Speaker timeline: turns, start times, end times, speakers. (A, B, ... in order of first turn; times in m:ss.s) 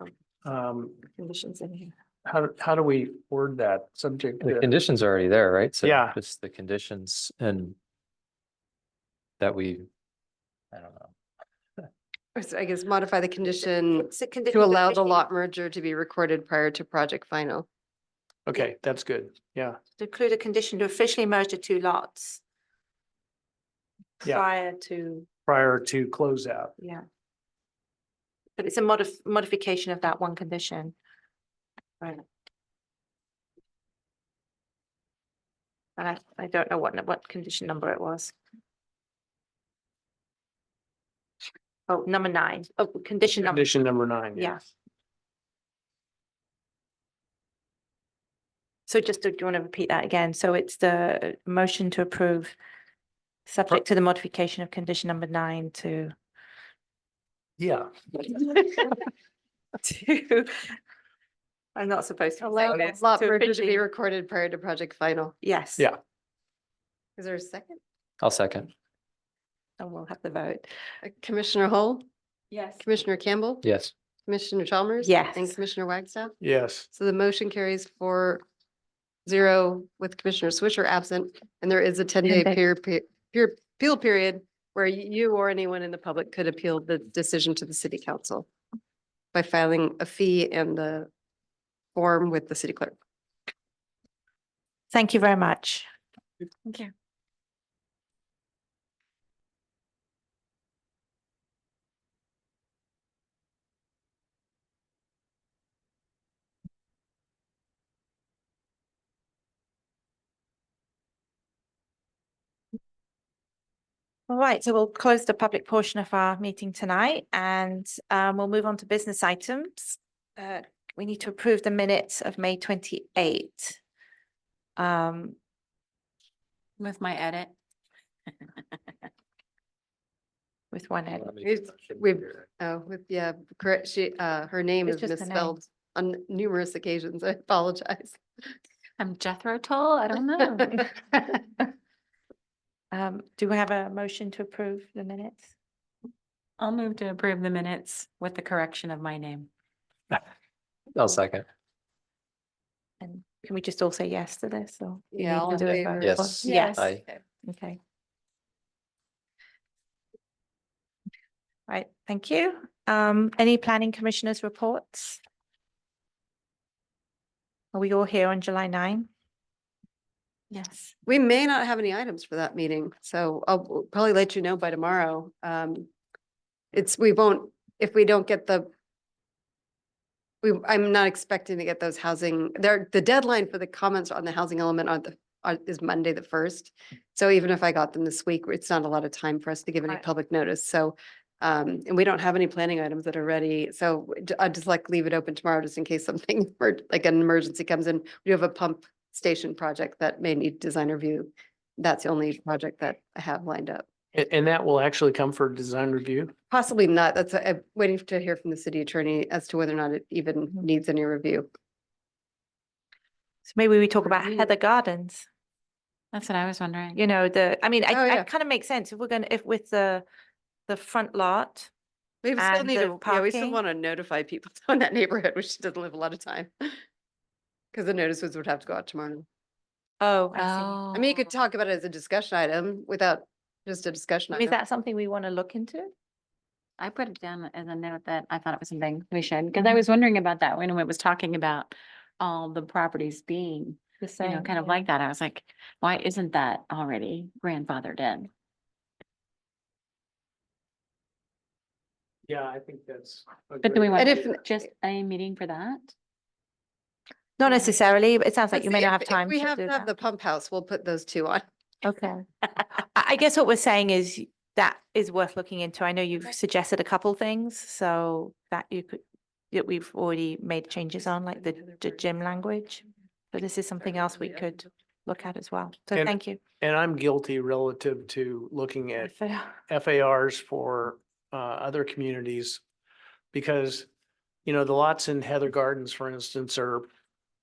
0:00.4-0:01.0 A
0:01.1-0:01.9 B
0:02.2-0:04.7 A
0:04.4-0:07.8 C
0:05.8-0:06.2 A
0:09.4-0:09.9 C
0:10.7-0:11.1 C
0:12.4-0:17.6 D
0:14.0-0:15.2 B
0:18.4-0:19.8 A
0:20.0-0:22.4 B
0:24.2-0:25.3 B
0:25.4-0:26.8 A
0:26.8-0:27.0 B
0:28.6-0:30.9 B
0:36.0-0:38.3 B
0:41.9-0:43.6 B
0:43.3-0:44.6 A
0:44.3-0:44.6 B
0:48.9-0:52.6 B
0:53.5-0:56.1 B
0:57.6-0:57.9 A
0:58.2-0:59.0 B
0:59.8-1:00.7 B
1:01.7-1:03.8 B
1:02.5-1:05.4 D
1:05.4-1:05.9 B
1:07.2-1:07.8 D
1:08.2-1:08.7 C
1:09.8-1:10.7 B
1:11.0-1:12.0 D
1:12.5-1:12.8 E
1:12.8-1:13.6 D
1:13.6-1:13.9 C
1:14.3-1:16.4 D
1:15.0-1:15.6 B
1:16.4-1:16.9 A
1:16.9-1:18.4 D
1:19.2-1:28.5 D
1:22.2-1:22.6 B
1:29.3-1:31.1 D
1:31.9-1:32.9 D
1:34.9-1:35.9 B
1:36.6-1:36.9 E
1:54.3-2:03.8 B
2:04.8-2:05.4 B
2:06.8-2:07.5 E
2:10.7-2:11.3 B
2:11.4-2:18.2 D
2:14.9-2:15.6 B
2:19.0-2:20.9 E
2:22.9-2:25.5 B
2:26.6-2:29.5 E
2:30.9-2:31.4 C
2:33.0-2:36.8 B
2:35.1-2:37.2 D
2:35.6-2:37.0 C
2:36.4-2:36.9 E
2:37.4-2:37.8 B
2:41.7-2:45.2 B
2:47.7-2:49.1 B
2:50.5-2:50.9 E
2:51.0-2:55.9 D
2:56.7-2:58.7 D
3:00.4-3:23.8 D
3:24.1-3:26.3 A
3:26.5-3:31.5 D
3:33.5-3:35.2 B
3:36.1-3:37.0 E
3:36.9-3:40.0 B
3:37.9-3:38.3 D
3:40.7-3:41.7 B
3:42.2-3:46.5 D
3:42.4-3:43.6 B
3:47.7-3:49.2 D
3:50.0-3:50.8 B
3:50.4-3:51.3 E
3:50.9-3:54.5 D
3:54.3-3:55.9 B
3:56.8-4:08.3 E
4:04.0-4:04.8 B
4:12.3-4:14.3 A
4:13.6-4:15.9 E
4:13.9-4:14.4 D
4:17.4-4:19.9 B
4:17.5-4:17.7 E
4:18.5-4:21.4 D
4:21.8-4:22.2 B
4:22.7-4:36.4 B
4:35.9-4:39.1 A
4:39.0-4:39.6 B
4:39.7-4:42.6 A
4:43.3-4:43.9 A
4:44.4-4:46.9 A